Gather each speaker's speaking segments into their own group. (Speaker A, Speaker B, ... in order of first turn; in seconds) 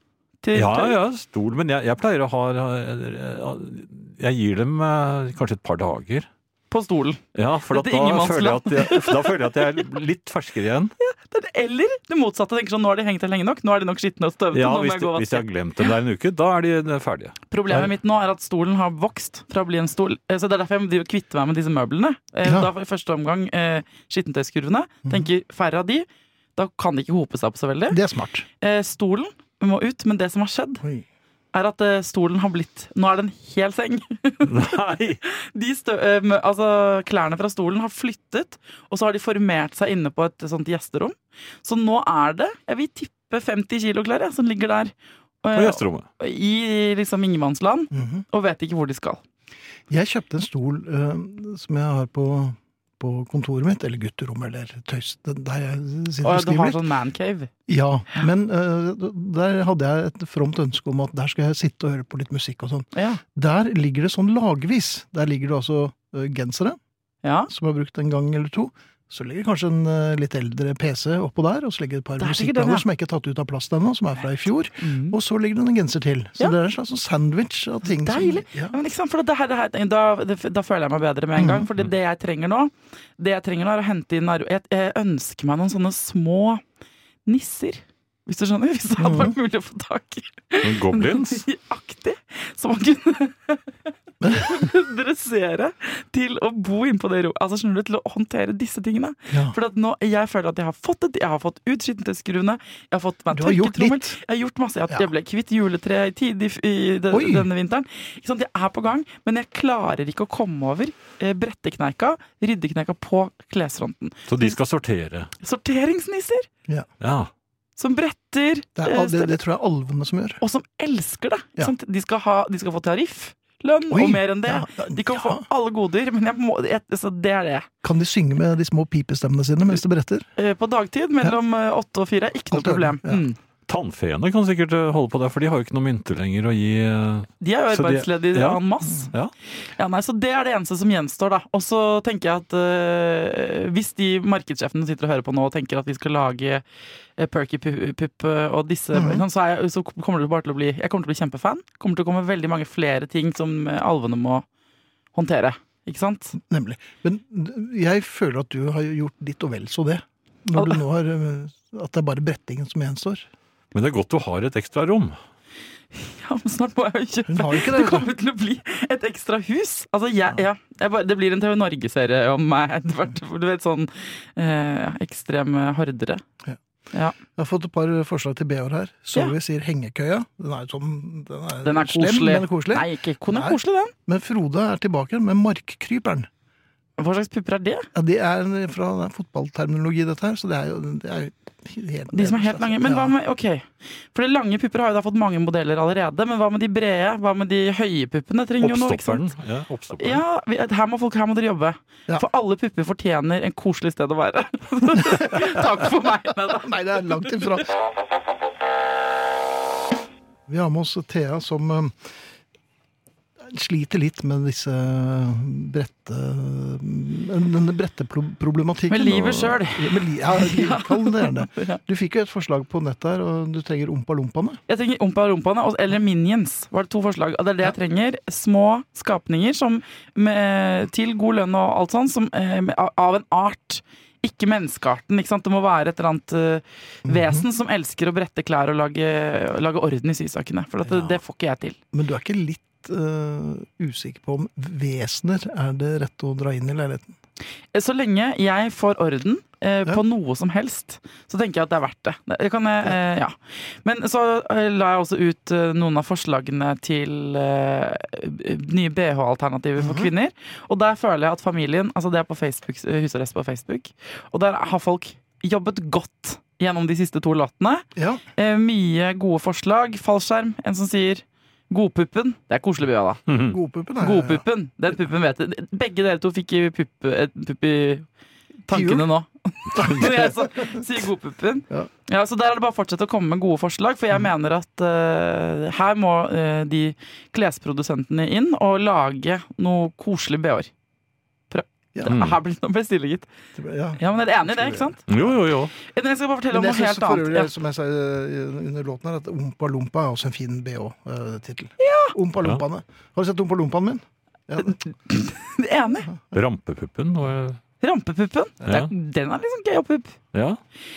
Speaker A: 0.4-1.0, 6.7-9.8, 11.0-15.9, 17.5-28.0, 28.6-30.8, 31.5-49.2, 56.2-57.5, 62.9-63.2, 67.2-67.5, 72.2-72.8, 74.8-75.2, 77.8-86.6, 87.3-93.7, 94.3-114.6, 115.4-116.5, 117.8-119.3, 120.4-127.7, 130.4-133.4, 137.4-139.1, 139.8-146.6, 147.2-154.4, 155.1-156.4, 165.9-176.2, 181.6-183.9, 187.0-187.9, 192.1-199.3, 200.0-207.2, 218.9-221.8, 224.7-241.8, 247.7-273.2, 274.0-278.1, 278.7-290.7, 291.5-293.3, 294.0-295.0, 295.8-297.5, 301.8-302.1, 304.6-306.1, 307.8-310.2
Speaker B: 0.5-6.3, 7.3-10.9, 14.5-17.9, 34.5-35.2, 45.5-46.1, 90.6-91.4, 114.3-115.3, 117.0-117.3, 133.7-139.3, 163.7-165.2, 198.6-200.2, 273.3-273.6, 292.1-292.4, 295.1-295.7, 306.3-307.6, 308.6-308.9, 310.3-310.6
Speaker C: 22.4-22.7, 27.9-28.5, 47.9-48.2, 49.9-56.8, 57.7-66.8, 67.5-78.8, 81.4-81.7, 89.0-89.3, 94.2-94.6, 99.3-99.6, 103.3-104.2, 107.1-107.5, 118.8-120.4, 123.9-125.5, 127.8-130.3, 132.5-133.2, 148.9-149.2, 156.4-163.3, 167.3-168.1, 177.3-186.3, 187.9-193.2, 205.0-207.7, 210.5-212.1, 213.4-224.6, 237.1-237.4, 240.9-241.2, 241.9-247.1, 259.8-260.1, 268.0-268.2, 273.5-274.4, 278.7-279.1, 279.8-280.9, 293.6-295.4, 296.5-304.8